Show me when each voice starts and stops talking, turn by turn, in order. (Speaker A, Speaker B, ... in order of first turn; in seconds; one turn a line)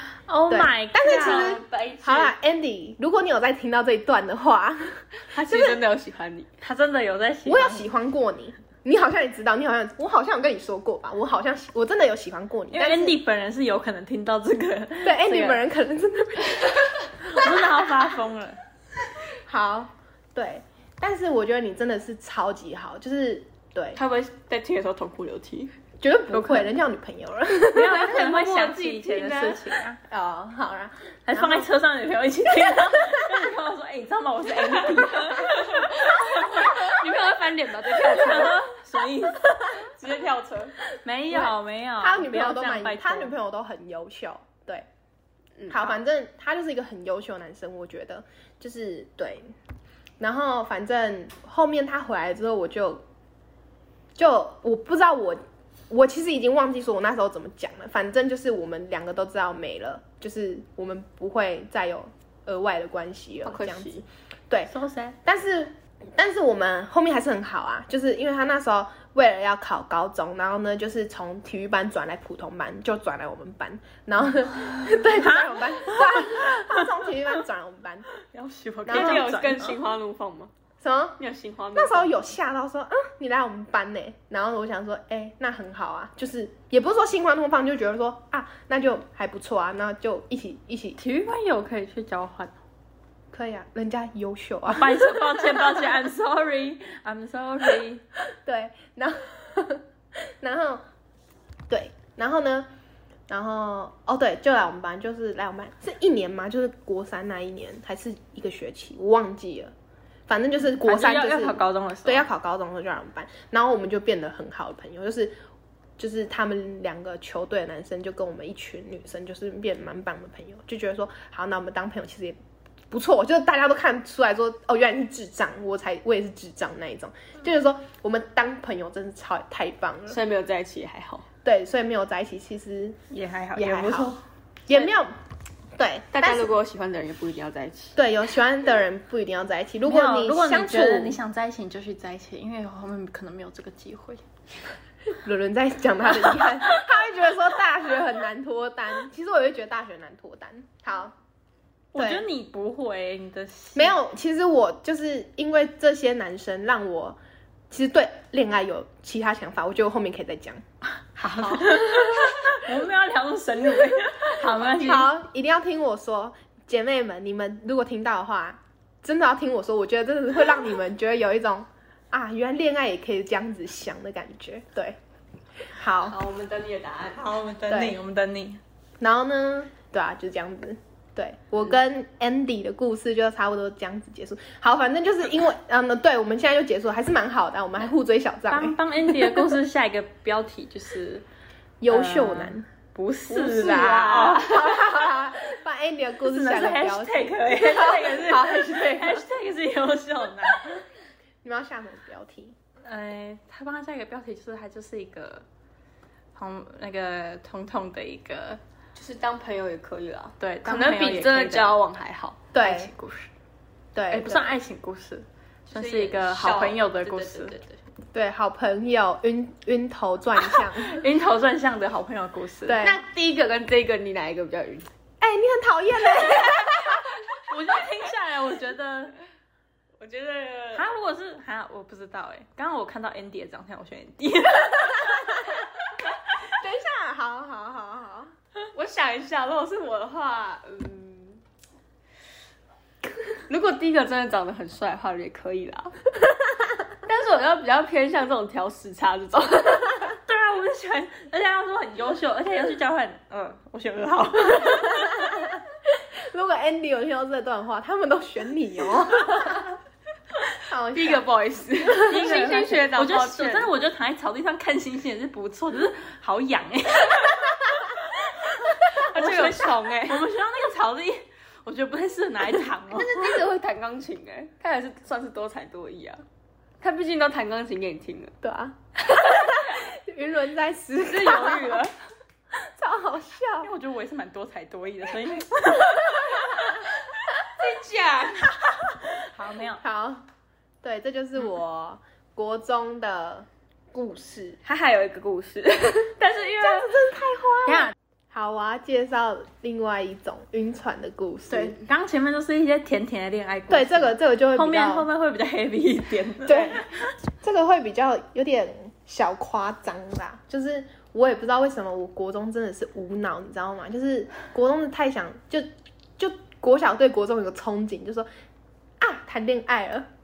Speaker A: 0.3-1.6
Speaker B: 0.5-5.8
Speaker C: 1.0-2.3
Speaker C: 5.3-6.5
Speaker A: 6.6-7.9
Speaker B: 7.4-13.2
Speaker A: 12.7-15.3
Speaker B: 15.0-17.9
Speaker C: 15.3-15.6
Speaker A: 17.3-18.6
Speaker B: 19.3-24.0
Speaker C: 23.9-25.7
Speaker B: 26.0-28.1
Speaker A: 26.3-26.7
Speaker A: 27.6-30.0
Speaker C: 27.7-29.8
Speaker B: 30.1-31.7
Speaker A: 31.3-37.0
Speaker C: 35.5-38.6
Speaker A: 37.9-39.8
Speaker C: 39.8-40.7
Speaker A: 40.9-43.3
Speaker B: 41.3-44.9
Speaker C: 45.6-45.9
Speaker B: 45.7-49.5
Speaker B: 50.2-53.0
Speaker B: 54.1-64.7
Speaker C: 63.4-64.0
Speaker A: 64.7-65.2
Speaker B: 65.2-78.1
Speaker A: 74.7-76.7
Speaker A: 78.3-79.8
Speaker B: 78.8-79.3
Speaker C: 78.9-80.5
Speaker B: 80.8-81.2
Speaker C: 81.2-82.1
Speaker B: 81.7-91.0
Speaker A: 91.0-92.5
Speaker B: 93.3-95.5
Speaker A: 94.7-98.0
Speaker B: 98.3-100.8
Speaker B: 101.7-102.7
Speaker B: 103.3-109.7
Speaker B: 110.3-115.3
Speaker A: 110.8-112.3
Speaker B: 116.0-122.4
Speaker B: 122.9-130.2
Speaker C: 130.1-131.2
Speaker B: 131.4-133.0
Speaker A: 133.1-134.2
Speaker B: 133.6-134.1
Speaker B: 134.7-135.1
Speaker B: 135.8-136.5
Speaker C: 136.1-138.0
Speaker B: 137.9-141.2
Speaker A: 139.8-144.2
Speaker B: 145.2-151.1
Speaker A: 151.9-154.0
Speaker B: 151.9-152.2
Speaker B: 153.7-157.2
Speaker B: 157.7-160.6
Speaker A: 161.2-165.1
Speaker B: 161.2-162.5
Speaker B: 164.8-175.0
Speaker B: 175.6-176.2
Speaker C: 176.0-177.2
Speaker A: 177.1-178.6
Speaker B: 177.7-178.0
Speaker B: 179.0-188.8
Speaker A: 188.5-191.2
Speaker B: 191.8-192.7
Speaker A: 191.9-194.9
Speaker B: 193.3-198.8
Speaker C: 193.5-194.4
Speaker A: 196.3-200.8
Speaker C: 198.1-199.2
Speaker B: 201.4-202.6
Speaker A: 202.8-205.4
Speaker A: 206.3-208.6
Speaker C: 208.9-212.5
Speaker A: 210.4-211.8
Speaker B: 212.5-212.9
Speaker A: 212.6-213.3
Speaker B: 213.9-214.6
Speaker A: 214.1-217.6
Speaker C: 215.7-217.8
Speaker B: 218.1-221.0
Speaker A: 220.6-222.8
Speaker B: 222.7-223.0
Speaker C: 222.8-224.9
Speaker B: 225.2-227.1
Speaker A: 227.3-229.1
Speaker C: 230.0-230.8
Speaker A: 230.7-235.5
Speaker B: 236.5-238.3
Speaker C: 238.7-241.4
Speaker C: 243.5-245.9
Speaker C: 247.0-250.2
Speaker A: 250.3-255.5
Speaker B: 255.2-259.8
Speaker B: 260.6-261.3
Speaker C: 260.9-263.7
Speaker A: 261.9-267.9
Speaker A: 268.5-273.4
Speaker C: 268.9-270.2
Speaker C: 272.9-276.2
Speaker C: 276.8-278.3
Speaker B: 278.4-281.8
Speaker C: 281.0-281.9
Speaker B: 282.5-283.7
Speaker A: 283.6-286.9
Speaker C: 287.6-288.6
Speaker A: 289.1-289.8
Speaker B: 289.8-290.2
Speaker B: 290.8-294.6
Speaker C: 294.6-296.1
Speaker A: 296.2-297.1
Speaker B: 296.6-301.8
Speaker A: 297.6-297.9
Speaker A: 301.5-306.9
Speaker B: 303.7-305.1
Speaker B: 306.4-306.9
Speaker B: 307.4-318.3
Speaker B: 319.0-320.1